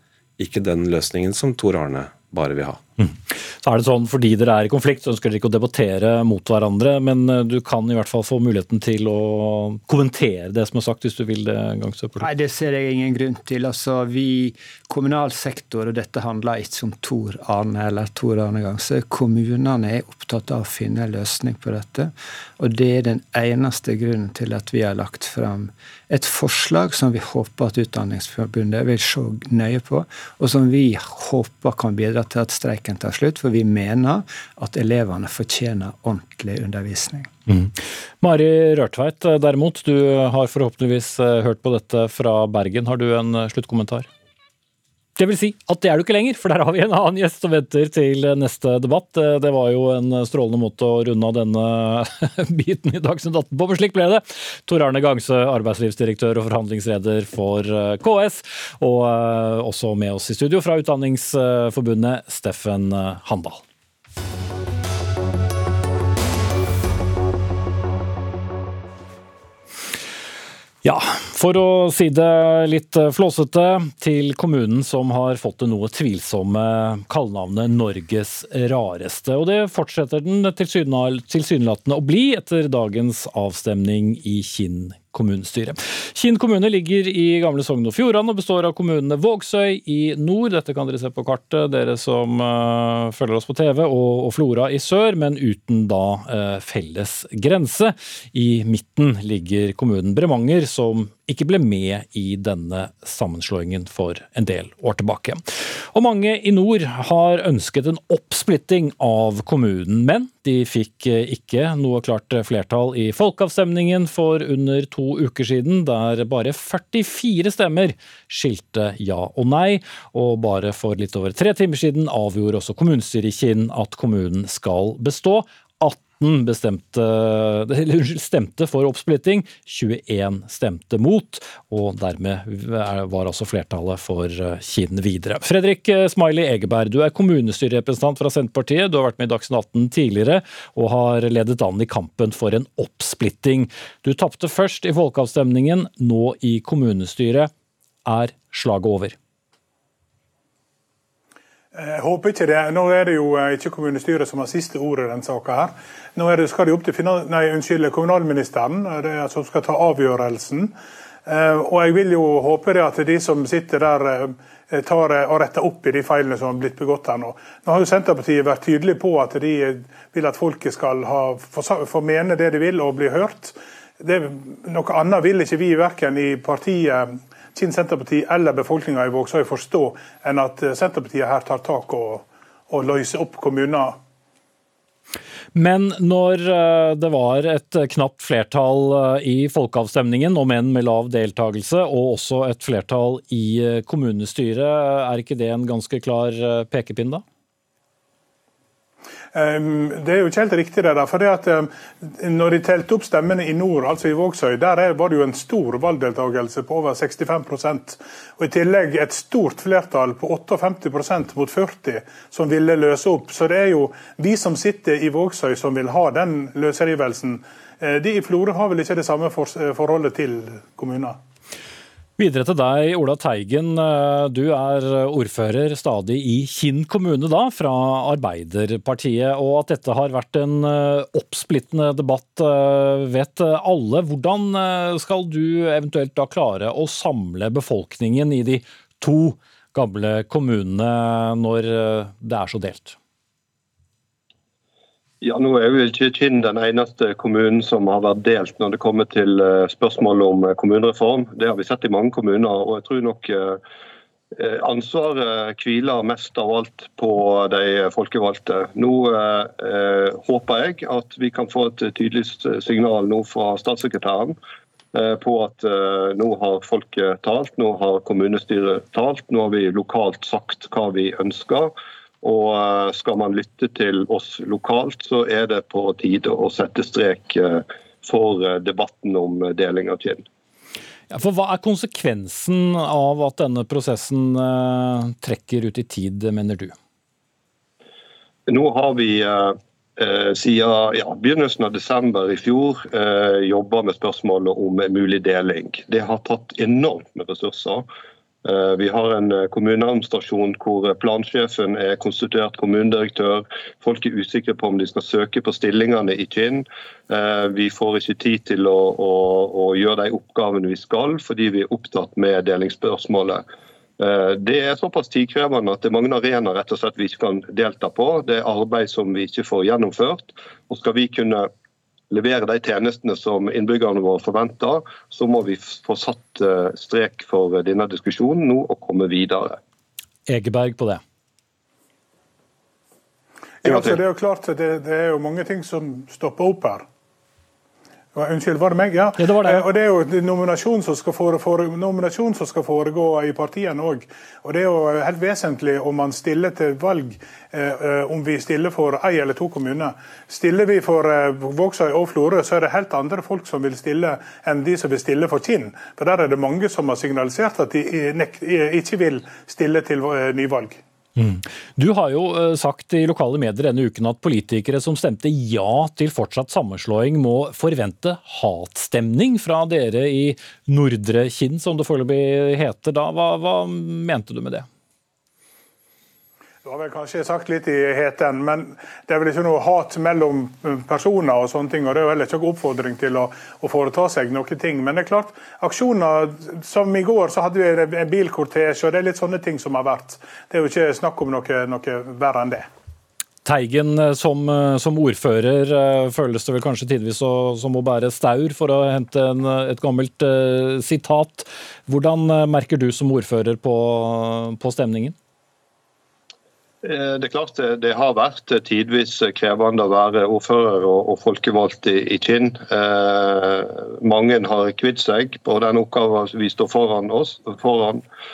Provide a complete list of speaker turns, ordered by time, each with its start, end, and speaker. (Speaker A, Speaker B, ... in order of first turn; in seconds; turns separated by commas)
Speaker A: 0.4-2.8, Speaker B: 3.0-12.3, Speaker C: 12.2-37.3, Speaker B: 37.5-44.1, Speaker B: 45.2-63.6, Speaker B: 70.8-147.5, Speaker B: 148.1-149.2, Speaker D: 151.7-160.7, Speaker D: 161.3-184.0, Speaker B: 185.5-197.2, Speaker D: 199.3-221.2, Speaker B: 222.2-243.0, Speaker E: 245.2-253.6, Speaker E: 254.4-264.4, Speaker E: 264.9-280.2, Speaker B: 281.1-286.8, Speaker E: 288.5-297.9, Speaker E: 298.4-313.4, Speaker E: 314.0-321.5, Speaker E: 322.1-329.6, Speaker B: 330.3-331.0, Speaker D: 333.6-336.9, Speaker D: 338.1-360.8, Speaker B: 339.2-339.7, Speaker B: 361.2-374.7, Speaker D: 376.6-392.7, Speaker B: 393.4-405.2, Speaker E: 406.8-418.0